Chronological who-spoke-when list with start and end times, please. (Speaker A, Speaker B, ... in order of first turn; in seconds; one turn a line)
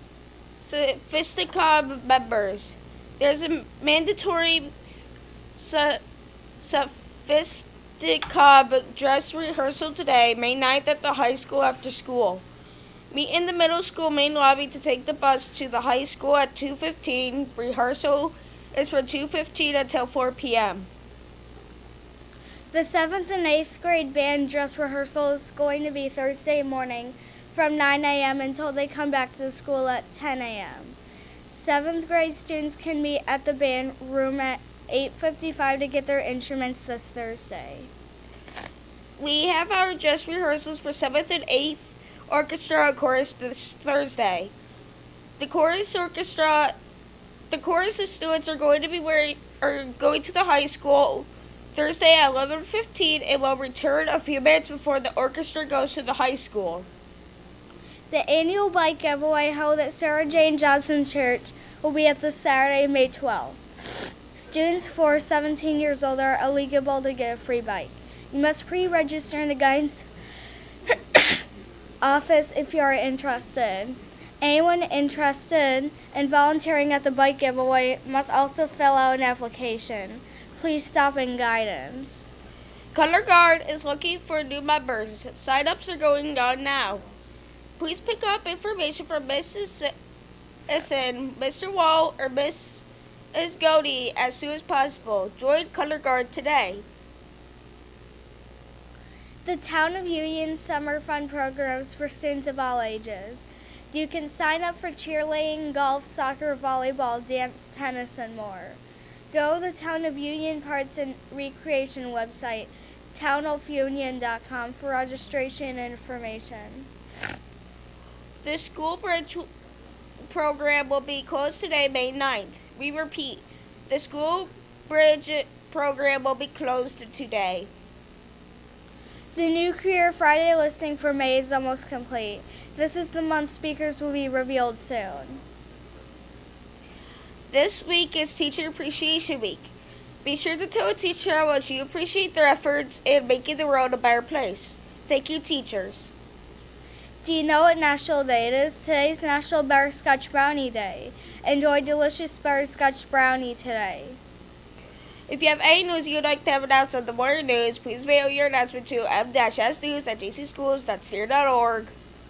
Speaker A: 0.6-4.7
Speaker A: 5.5-6.0
Speaker A: 6.6-12.4
Speaker A: 13.1-20.9
Speaker B: 22.7-37.9
Speaker A: 39.2-44.5
Speaker A: 45.4-46.7
Speaker A: 47.5-56.9
Speaker B: 58.1-70.1
Speaker B: 72.0-82.3
Speaker A: 82.9-87.0
Speaker A: 87.8-89.9
Speaker A: 90.7-96.8
Speaker B: 99.4-108.8
Speaker B: 109.3-116.9
Speaker A: 118.4-119.5
Speaker A: 120.2-127.7
Speaker B: 129.3-135.4
Speaker A: 137.5-139.7
Speaker A: 140.2-146.1
Speaker B: 147.2-154.2
Speaker A: 155.3-161.9